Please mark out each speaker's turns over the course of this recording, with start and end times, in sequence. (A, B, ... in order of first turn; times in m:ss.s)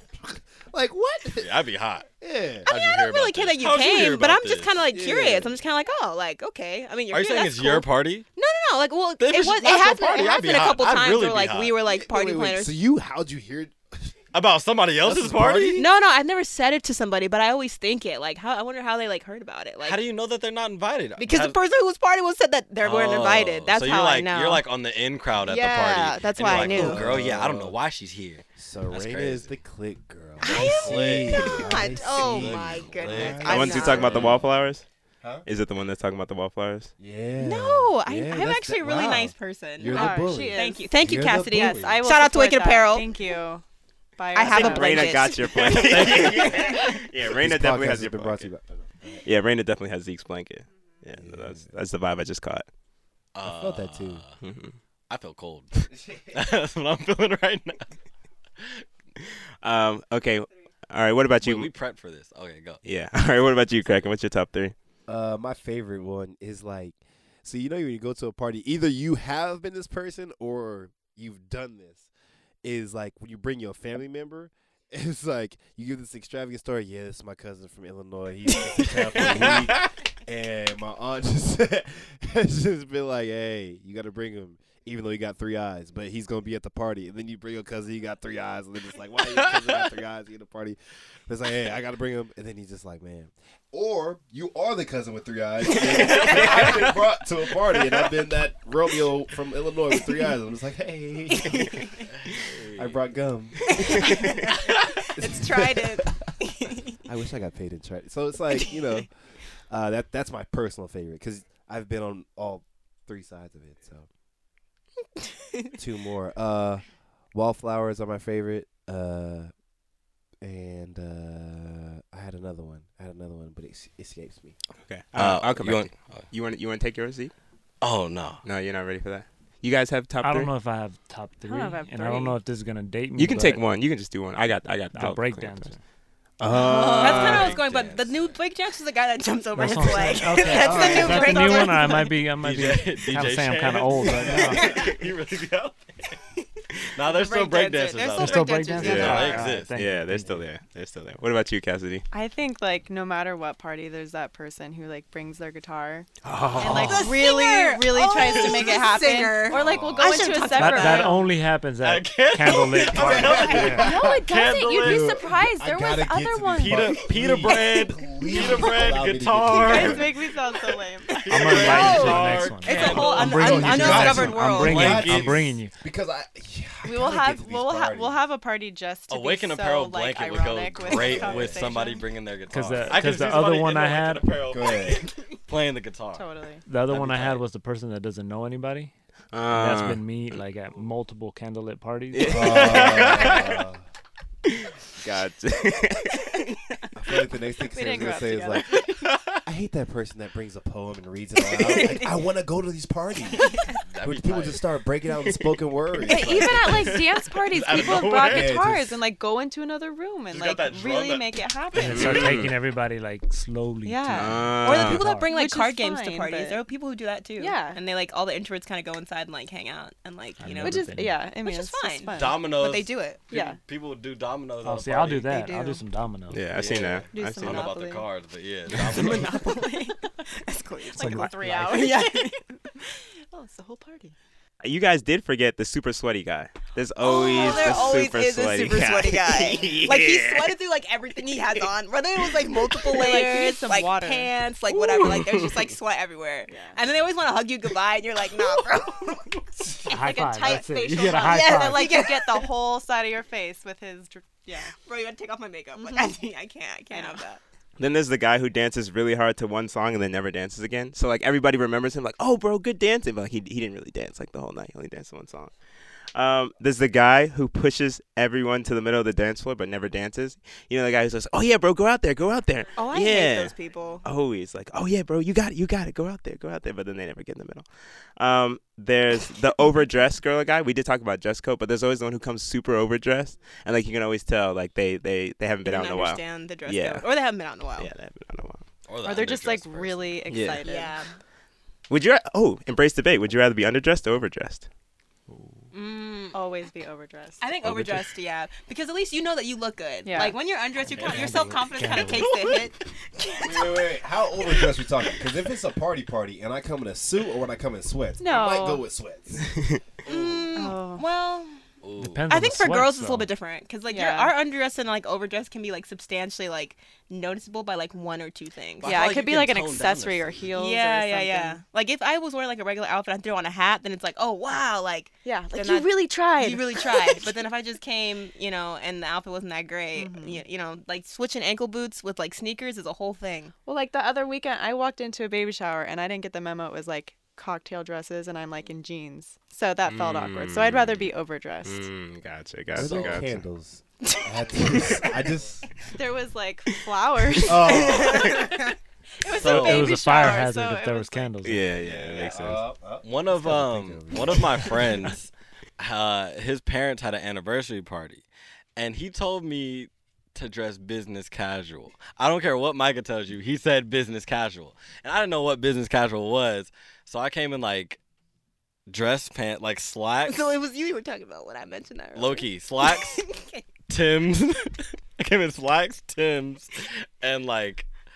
0:00.2-0:01.6 A
0:01.4-0:02.1 B
0:02.2-0:02.7 A
0:02.7-0:04.8 B
0:02.7-0:12.8 C
0:04.9-0:05.6 A
0:07.1-0:08.2 B
0:09.2-0:11.8 B
0:11.9-0:14.2 A
0:14.3-0:15.8 B
0:15.0-0:15.9 A
0:15.8-0:20.0 C
0:19.8-0:21.6 B
0:21.2-0:24.6 C
0:22.8-0:29.5 B
0:25.4-0:27.2 C
0:26.5-0:27.8 A
0:28.6-0:34.4 A
0:30.4-0:34.2 C
0:30.4-0:34.4 B
0:33.5-0:34.8 D
0:35.5-0:36.9 D
0:37.0-0:42.0 A
0:37.4-0:43.1 C
0:39.9-0:40.9 E
0:41.5-0:43.6 E
0:44.2-0:45.3 E
0:44.3-0:47.0 C
0:44.5-0:48.5 D
0:45.8-0:46.6 B
0:47.2-0:49.2 A
0:49.2-0:52.7 D
0:51.2-0:51.7 A
0:53.4-0:54.4 B
0:53.4-0:54.2 A
0:54.4-0:54.8 D
0:55.1-0:57.9 B
0:59.2-1:01.7 D
1:01.4-1:02.8 B
1:02.8-1:04.8 D
1:05.1-1:12.1 A
1:12.6-1:42.0 A
1:19.2-1:19.8 B
1:36.1-1:36.9 B
1:36.1-1:36.5 C
1:41.4-1:42.0 C
1:42.2-1:43.0 B
1:42.8-1:46.3 A
1:43.7-1:47.0 C
1:46.9-1:49.1 A
1:49.7-1:54.1 A
1:55.8-1:59.5 A
2:00.4-2:04.6 A
2:04.8-2:07.3 D
2:05.2-2:06.3 B
2:07.8-2:08.4 B
2:08.4-2:10.5 D
2:10.2-2:13.6 F
2:11.4-2:12.4 E
2:13.2-2:15.8 D
2:14.9-2:15.8 F
2:16.4-2:17.5 A
2:16.4-2:17.6 D
2:16.6-2:17.3 E
2:16.7-2:22.1 C
2:17.0-2:18.3 B
2:19.6-2:24.8 F
2:20.5-2:22.1 E
2:22.3-2:26.1 B
2:24.6-2:24.9 C
2:26.9-2:29.8 B
2:27.0-2:28.5 C
2:28.0-2:29.5 E
2:28.1-2:30.4 F
2:29.7-2:32.0 D
2:32.1-2:41.3 E
2:36.2-2:37.1 D
2:36.6-2:41.2 C
2:38.2-2:38.5 B
2:39.5-2:40.3 A
2:40.4-2:43.9 F
2:41.8-2:45.1 B
2:42.9-2:50.2 A
2:43.4-2:47.0 E
2:46.6-2:50.2 B
2:49.6-2:53.2 E
2:51.2-2:55.6 B
2:51.3-2:55.7 F
2:51.5-2:55.0 C
2:53.3-2:58.2 A
2:56.8-3:02.1 E
2:59.1-3:06.3 B
3:00.8-3:01.8 A
3:02.5-3:04.3 F
3:04.5-3:05.1 A
3:06.2-3:06.6 E
3:06.7-3:08.9 F
3:06.8-3:07.4 B
3:09.3-3:10.4 D
3:09.5-3:12.8 F
3:12.1-3:13.5 D
3:12.3-3:13.8 A
3:12.6-3:13.6 B
3:14.5-3:16.3 D
3:17.0-3:18.8 A
3:17.6-3:19.1 E
3:19.4-3:27.0 A
3:21.7-3:22.0 C
3:23.9-3:24.6 B
3:26.1-3:32.4 E
3:26.1-3:28.6 B
3:28.2-3:29.0 A
3:30.3-3:32.2 B
3:31.8-3:35.3 F
3:31.8-3:32.6 D
3:33.8-3:36.6 E
3:34.1-3:35.0 D
3:34.6-3:40.8 C
3:37.4-3:37.8 E
3:40.4-3:41.3 F
3:40.6-3:42.5 E
3:41.4-3:43.2 C
3:42.1-3:45.4 B
3:43.3-3:43.6 E
3:44.6-3:46.5 F
3:45.3-3:45.8 E
3:46.3-3:47.7 D
3:46.5-3:49.4 B
3:47.1-3:48.1 E
3:48.8-3:52.4 C
3:49.1-3:50.3 E
3:50.8-3:54.2 E
3:51.0-3:52.0 F
3:54.6-4:00.6 D
3:57.0-4:09.3 C
3:57.3-3:57.9 E
4:02.9-4:04.3 E
4:06.5-4:06.8 E
4:09.9-4:12.0 F
4:09.9-4:14.7 E
4:10.4-4:12.5 C
4:14.7-4:17.4 C
4:15.8-4:16.1 E
4:16.9-4:17.2 E
4:17.8-4:25.5 D
4:26.2-4:47.1 D
4:32.8-4:34.0 C
4:45.6-4:47.9 C
4:47.8-4:48.6 D
4:48.9-4:50.3 B
4:49.0-4:51.0 E
4:50.3-4:50.6 D
4:50.6-4:51.2 C
4:51.9-4:54.7 D
4:55.3-4:55.6 F
4:55.7-4:56.4 C
4:56.3-4:57.5 E
4:57.4-5:04.9 C
5:00.1-5:00.4 E
5:00.8-5:02.6 F
5:03.4-5:09.5 A
5:08.2-5:08.8 E
5:10.0-5:11.6 C
5:10.1-5:10.6 B
5:10.6-5:11.0 E
5:11.8-5:12.3 B
5:12.0-5:13.3 F
5:12.3-5:18.9 C
5:13.9-5:14.3 E
5:18.8-5:20.4 B
5:18.8-5:21.6 E
5:20.5-5:33.5 C
5:25.2-5:27.3 E
5:30.0-5:30.4 E
5:33.7-5:41.9 E
5:39.8-5:41.1 D
5:41.6-5:43.4 D
5:42.8-5:45.6 A
5:42.8-5:43.2 B
5:45.9-5:51.3 E
5:47.4-5:48.4 A
5:47.9-5:48.6 C
5:49.3-5:50.0 B
5:49.4-5:51.7 F
5:51.4-5:52.7 D
5:51.8-5:54.9 A
5:53.0-5:58.2 B
5:58.8-6:08.0 B
6:08.9-6:10.4 B
6:10.3-6:13.6 C
6:12.2-6:13.2 B
6:13.9-6:17.9 B